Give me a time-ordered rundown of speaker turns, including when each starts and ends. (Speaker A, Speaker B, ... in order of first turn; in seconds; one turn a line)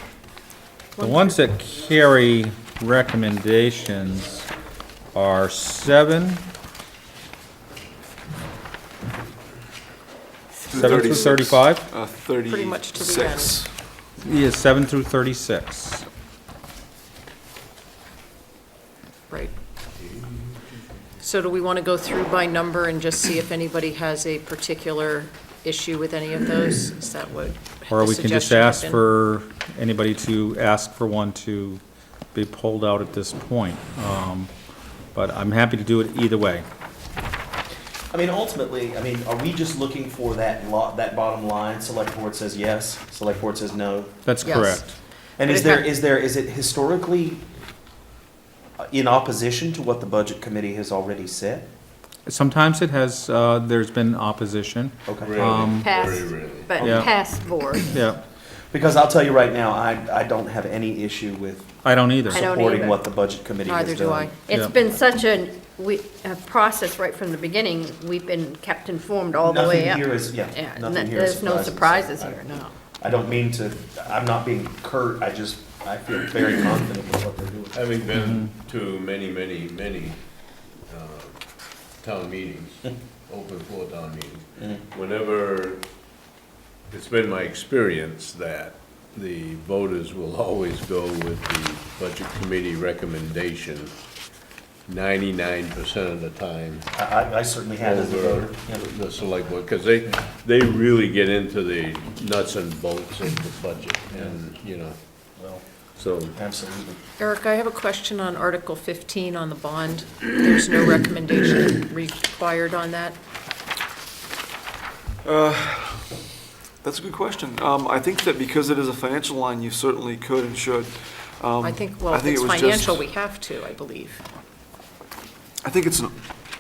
Speaker A: 1.0-1.4
Speaker B: 1.0-4.5
Speaker B: 5.1-6.4
Speaker C: 10.7-13.7
Speaker B: 10.7-11.9
Speaker A: 12.4-13.6
Speaker B: 14.2-16.1
Speaker A: 21.2-29.0
Speaker B: 27.9-31.8
Speaker B: 32.3-34.5
Speaker B: 35.1-36.7
Speaker D: 38.1-44.1
Speaker B: 44.2-44.9
Speaker A: 44.4-45.9
Speaker D: 45.4-47.5
Speaker D: 48.8-51.7
Speaker B: 52.3-55.9
Speaker D: 55.1-55.5
Speaker E: 55.2-56.8
Speaker F: 55.8-57.9
Speaker B: 56.8-58.2
Speaker D: 58.7-61.7
Speaker B: 61.8-62.4
Speaker D: 62.3-64.3
Speaker F: 62.3-63.0
Speaker A: 63.6-64.6
Speaker F: 64.5-72.7
Speaker D: 69.4-72.4
Speaker D: 73.0-77.7
Speaker E: 77.7-85.8
Speaker B: 78.2-78.5
Speaker E: 86.9-94.0
Speaker E: 94.9-96.9
Speaker D: 96.9-98.8
Speaker E: 97.8-105.0
Speaker D: 104.1-104.4
Speaker D: 105.4-105.6
Speaker E: 106.0-106.3
Speaker D: 106.2-107.0
Speaker A: 107.2-113.2
Speaker C: 115.2-116.2
Speaker C: 116.8-123.1
Speaker A: 121.6-124.2
Speaker C: 125.6-126.1